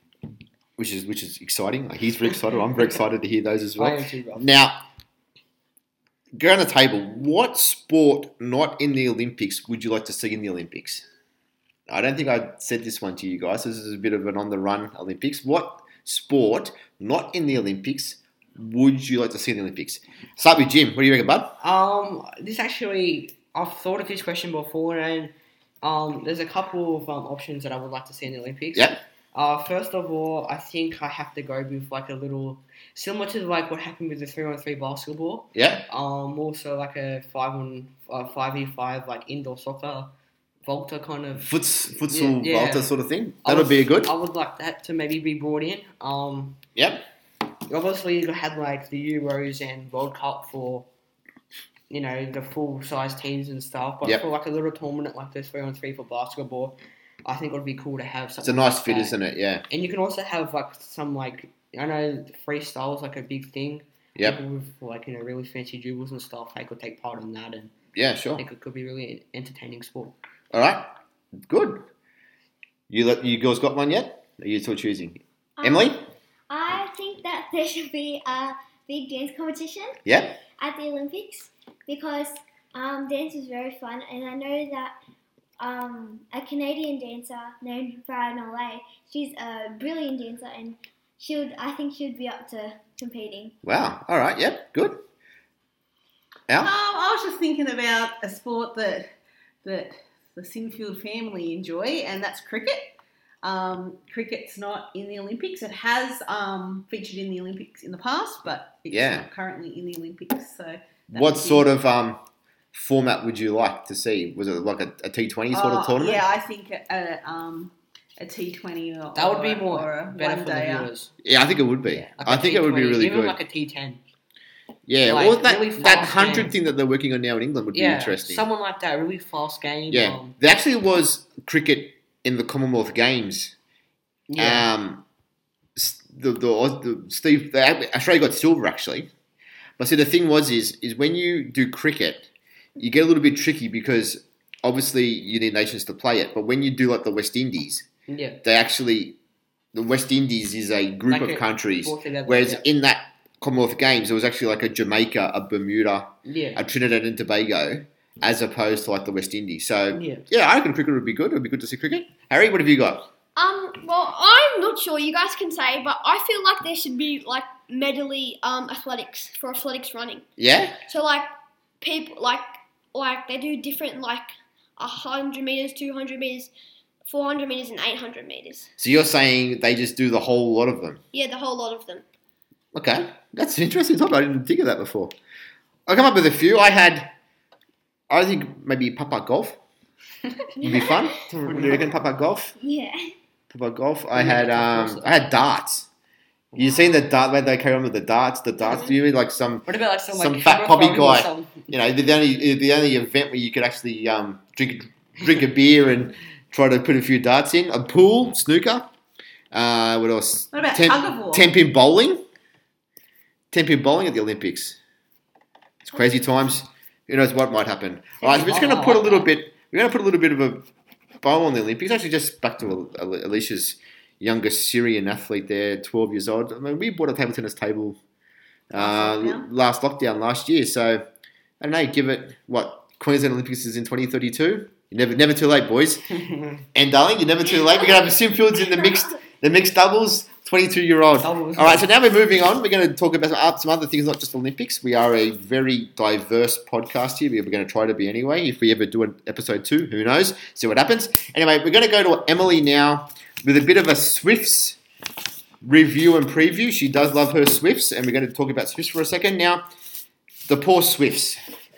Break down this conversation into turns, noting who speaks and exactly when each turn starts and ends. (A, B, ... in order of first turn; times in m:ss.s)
0:00.8-0:04.8 A
0:03.8-0:04.5 B
0:06.4-0:11.0 A
0:11.9-0:21.6 A
0:21.6-0:40.1 B
0:28.7-0:29.0 A
0:35.5-0:35.8 A
0:40.6-0:42.9 B
0:41.4-0:44.1 A
0:43.4-0:46.6 B
0:46.8-0:47.0 A
0:47.7-0:50.9 B
0:51.9-0:59.2 B
0:58.4-0:59.6 A
0:59.7-1:07.7 B
1:07.9-1:08.4 A
1:08.4-1:10.2 B
1:10.5-1:10.9 A
1:11.5-1:11.8 A
1:12.9-1:16.1 A
1:15.6-1:15.9 C
1:16.5-1:20.0 C
1:20.0-1:20.4 A
1:20.6-1:24.9 C
1:25.6-1:33.6 C
1:33.6-1:35.0 A
1:36.6-1:39.1 D
1:39.6-1:51.7 D
1:48.9-1:49.3 A
1:51.1-1:52.2 A
1:52.7-1:56.2 A
1:55.5-2:00.9 D
1:59.1-2:01.1 B
2:01.2-2:03.4 A
2:01.9-2:04.0 B
2:04.8-2:08.4 A
2:05.0-2:06.6 B
2:07.7-2:10.4 B
2:09.9-2:13.5 A
2:14.3-2:14.7 B
2:14.4-2:15.0 A
2:15.8-2:19.1 A
2:19.8-2:27.8 A
2:28.1-2:28.4 B
2:28.4-2:29.2 A
2:29.7-2:43.1 A
2:31.1-2:32.6 B
2:36.2-2:36.6 B
2:39.9-2:40.3 B
2:43.4-2:50.3 E
2:50.4-2:50.8 A
2:50.9-2:51.3 E
2:51.8-2:56.5 E
2:57.0-2:58.7 E
2:58.8-3:01.0 A
3:01.1-3:02.0 E
3:02.7-3:05.1 A
3:05.9-3:07.1 A
3:08.1-3:09.6 A
3:10.6-3:12.5 A
3:11.3-3:11.9 B
3:12.6-3:13.1 C
3:13.5-3:15.9 A
3:14.1-3:15.1 B
3:16.6-3:28.9 A
3:18.6-3:18.9 E
3:19.6-3:21.7 B
3:29.5-3:32.2 A
3:30.5-3:31.5 D
3:33.5-3:34.8 A
3:35.8-3:40.7 A
3:38.2-3:39.3 B
3:41.2-3:48.0 A
3:48.7-3:51.0 A
3:48.7-3:49.5 D
3:51.6-3:56.1 A
3:56.1-3:56.6 B
3:56.7-4:14.8 A
4:01.2-4:01.9 B
4:15.6-4:19.6 A
4:20.5-4:21.4 A